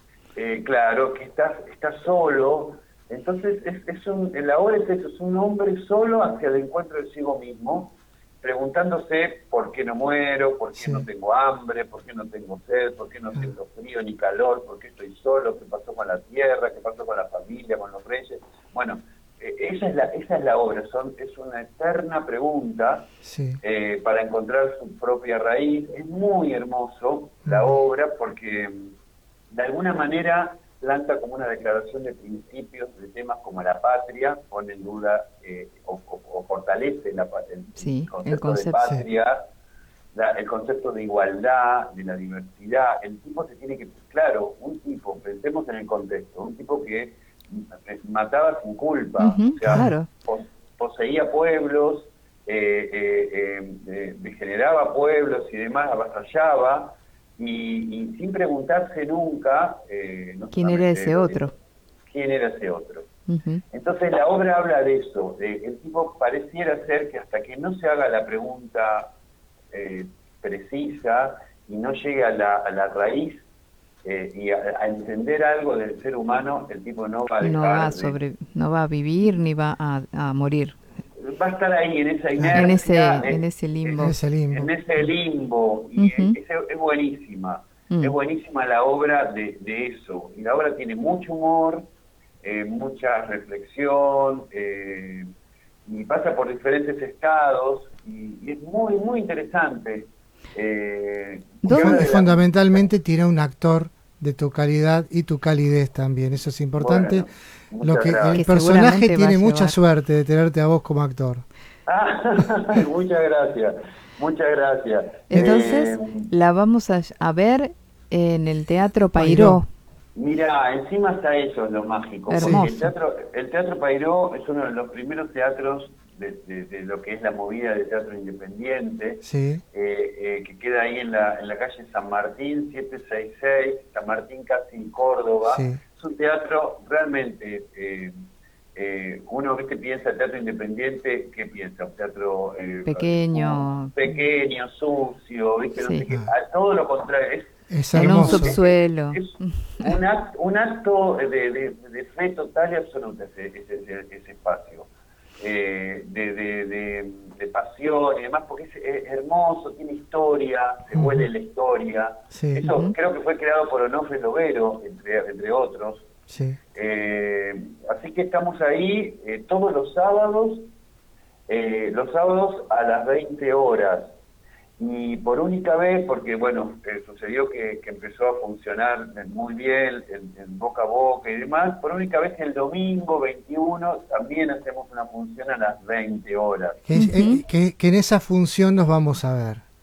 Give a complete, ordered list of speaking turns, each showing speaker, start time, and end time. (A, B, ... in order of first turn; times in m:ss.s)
0:00.4-0:28.9 A
0:10.8-0:11.1 B
0:23.2-0:23.6 B
0:27.4-0:27.8 B
0:29.5-0:39.4 A
0:37.8-0:38.9 C
0:40.1-1:01.4 A
0:49.2-0:50.1 C
1:00.5-1:01.5 C
1:02.1-1:03.1 A
1:03.3-1:03.6 C
1:03.7-1:09.1 A
1:09.7-1:13.4 A
1:14.0-1:18.2 A
1:17.4-1:20.8 C
1:21.2-1:31.9 A
1:22.4-1:22.6 B
1:22.5-1:24.2 C
1:24.0-1:24.7 B
1:26.0-1:26.4 C
1:32.4-1:35.3 A
1:35.9-1:42.8 A
1:41.6-1:42.1 C
1:41.7-1:47.3 B
1:46.8-1:48.5 A
1:47.8-1:51.4 B
1:48.3-1:49.8 C
1:51.9-1:56.3 A
1:55.3-1:59.7 C
1:55.3-1:55.6 B
1:59.2-1:59.6 B
2:00.2-2:18.1 A
2:02.3-2:02.9 C
2:02.4-2:02.8 B
2:09.2-2:09.6 B
2:15.4-2:15.8 B
2:18.8-2:34.9 A
2:22.9-2:24.1 C
2:25.8-2:26.0 C
2:27.7-2:28.6 B
2:28.0-2:29.9 C
2:35.4-2:46.1 A
2:40.9-2:41.3 B
2:42.3-2:42.7 B
2:42.6-2:42.9 C
2:46.3-2:46.6 B
2:46.8-2:50.7 A
2:51.5-2:54.1 A
2:54.8-3:06.8 A
3:06.9-3:09.6 B
3:07.0-3:07.4 C